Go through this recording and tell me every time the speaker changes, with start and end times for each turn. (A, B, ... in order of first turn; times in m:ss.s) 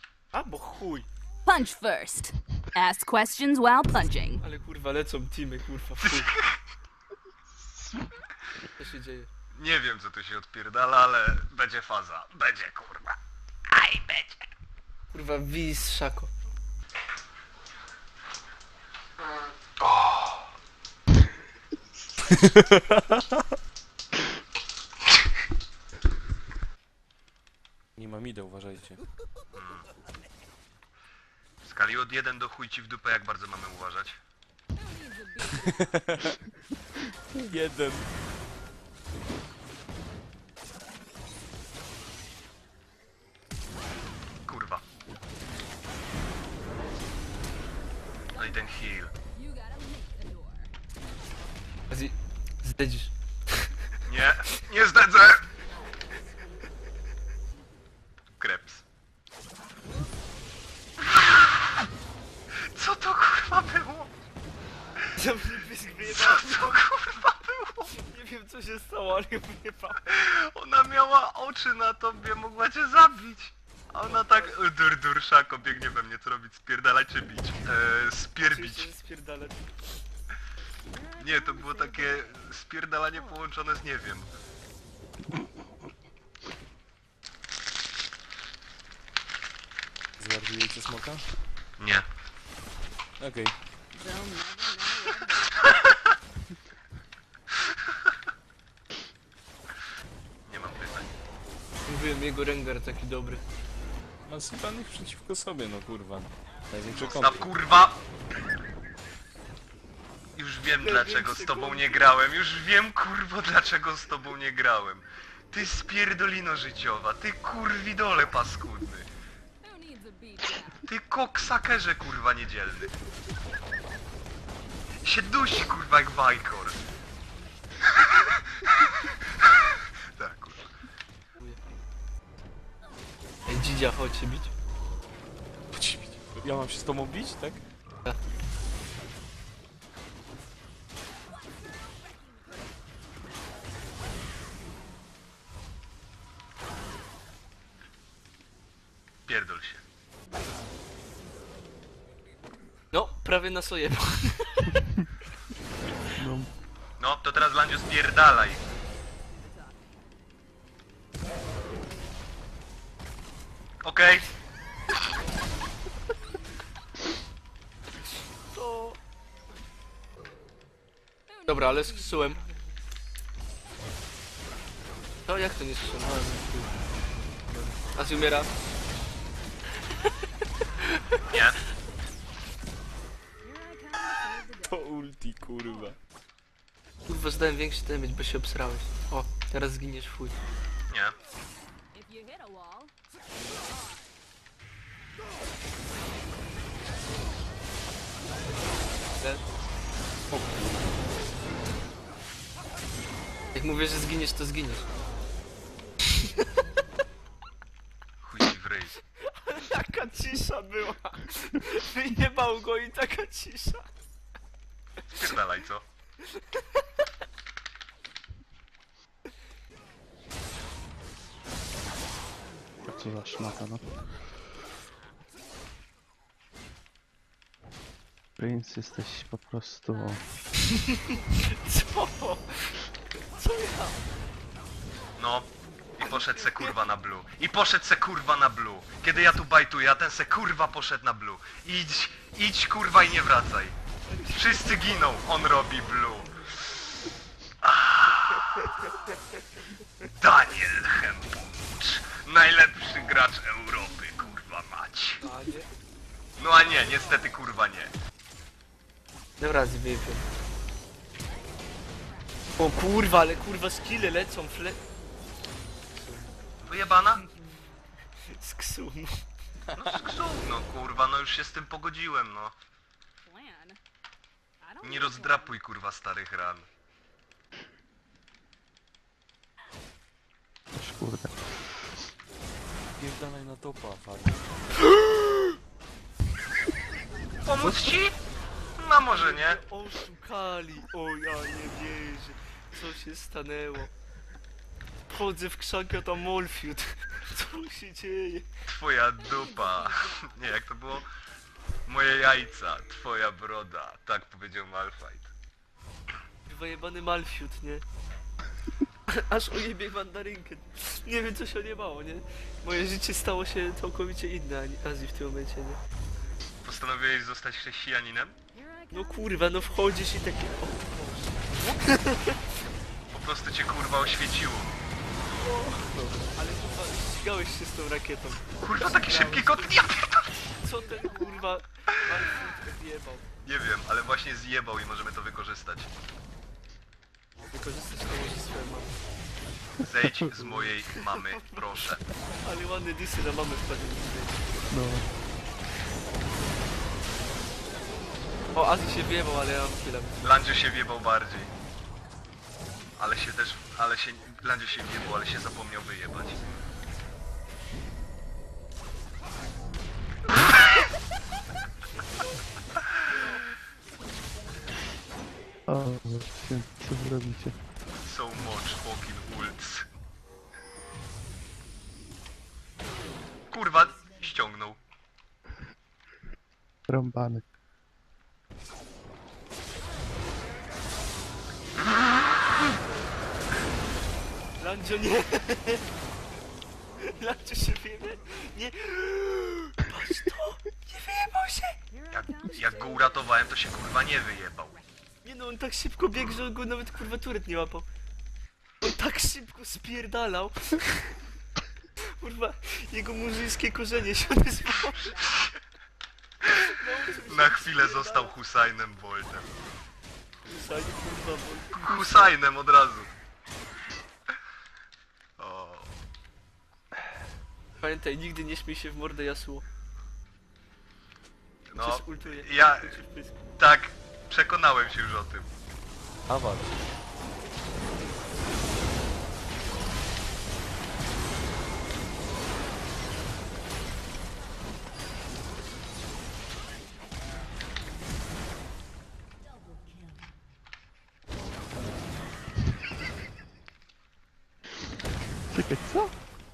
0:00.3-0:01.1 A
0:01.4-0:04.4 B
0:04.3-0:06.3 A
0:06.0-0:06.6 C
0:08.8-0:09.3 A
0:09.5-0:13.2 C
0:13.7-0:14.4 C
0:15.1-0:16.3 A
0:19.8-0:20.4 C
0:22.3-0:23.0 D
0:28.0-0:29.0 D
0:29.5-0:29.9 C
0:31.6-0:34.2 C
0:34.8-0:35.4 B
0:35.4-0:36.4 D
0:37.4-0:38.1 D
0:44.5-0:44.8 C
0:48.3-0:49.1 C
0:49.5-0:50.6 B
0:51.9-0:53.7 A
0:54.1-0:55.5 C
0:58.4-0:58.8 C
1:01.0-1:01.8 C
1:02.6-1:04.1 C
1:05.1-1:06.8 A
1:06.1-1:07.9 C
1:07.9-1:10.0 A
1:10.1-1:18.9 C
1:14.0-1:14.6 A
1:18.4-1:19.7 A
1:21.2-1:24.3 C
1:30.2-1:31.2 D
1:31.8-1:32.0 C
1:33.2-1:33.5 D
1:33.9-1:35.5 B
1:40.5-1:41.1 C
1:41.8-1:43.4 A
1:44.3-1:47.5 D
1:47.1-1:48.0 C
1:50.4-1:59.1 C
1:50.7-1:52.0 A
1:59.6-2:00.8 B
2:00.7-2:02.9 C
2:05.0-2:06.8 C
2:08.0-2:09.5 C
2:10.2-2:10.7 C
2:13.4-2:14.5 A
2:15.7-2:17.6 D
2:29.3-2:29.8 C
2:32.9-2:34.7 A
2:36.2-2:36.5 E
2:37.0-2:38.6 C
2:43.8-2:44.3 C
2:48.5-2:49.0 A
2:51.4-2:52.5 A
2:55.2-2:56.7 A
2:57.5-2:58.5 A
3:00.6-3:01.2 A
3:01.3-3:01.6 C
3:03.8-3:04.5 B
3:04.7-3:06.0 D
3:07.0-3:10.4 A
3:10.9-3:11.1 C
3:12.0-3:12.9 B
3:19.2-3:19.4 A
3:20.3-3:20.9 D
3:23.5-3:24.9 A
3:28.2-3:28.9 C
3:29.2-3:33.9 A
3:35.1-3:35.8 C
3:42.9-3:43.8 E
3:48.4-3:50.2 E
3:50.8-3:52.8 A
3:53.3-3:54.0 A
3:55.2-4:03.7 C
3:56.0-3:56.7 A
4:04.1-4:04.8 A
4:04.3-4:06.5 C
4:07.6-4:08.7 C
4:10.0-4:15.2 C
4:15.2-4:15.7 A
4:16.4-4:17.9 C
4:19.4-4:20.3 A
4:22.6-4:24.8 A
4:26.0-4:26.3 A
4:26.6-4:27.2 C
4:28.3-4:29.2 A
4:29.7-4:32.5 C
4:33.3-4:33.8 B
4:34.6-4:35.5 B
4:34.8-4:36.6 C
4:40.7-4:41.4 E
4:43.0-4:44.5 D
4:47.4-4:48.2 C
4:48.7-4:49.6 C
4:49.0-4:53.9 A
4:55.1-4:58.5 A
4:58.7-5:01.1 C
5:01.9-5:05.3 C
5:06.4-5:07.8 A
5:09.1-5:15.8 A
5:16.6-5:18.4 C
5:18.9-5:22.3 A
5:23.1-5:24.7 C
5:25.3-5:29.7 A
5:28.6-5:30.4 C
5:30.6-5:33.2 A
5:33.4-5:35.9 C
5:37.5-5:39.0 A
5:39.8-5:42.0 C
5:40.0-5:40.5 E
5:42.4-5:44.4 A
5:44.7-5:45.1 E
5:48.5-5:50.2 A
5:50.2-5:51.5 C
5:53.0-5:56.4 C
6:05.7-6:07.6 E
6:08.0-6:09.9 C
6:13.5-6:14.8 C
6:16.9-6:17.4 E
6:24.6-6:25.8 A
6:27.0-6:31.8 A
6:32.1-6:34.8 C
6:35.2-6:37.9 A
6:38.8-6:41.0 A
6:42.2-6:45.3 A
6:46.4-6:46.7 C
6:46.5-6:48.3 A
6:47.3-6:49.5 C
6:50.4-6:52.3 A
6:51.7-6:53.1 C
6:55.4-6:55.9 C
6:57.8-6:59.6 A
7:01.7-7:02.9 C
7:01.8-7:03.4 A
7:03.6-7:05.5 C
7:06.3-7:06.9 D
7:25.5-7:26.1 E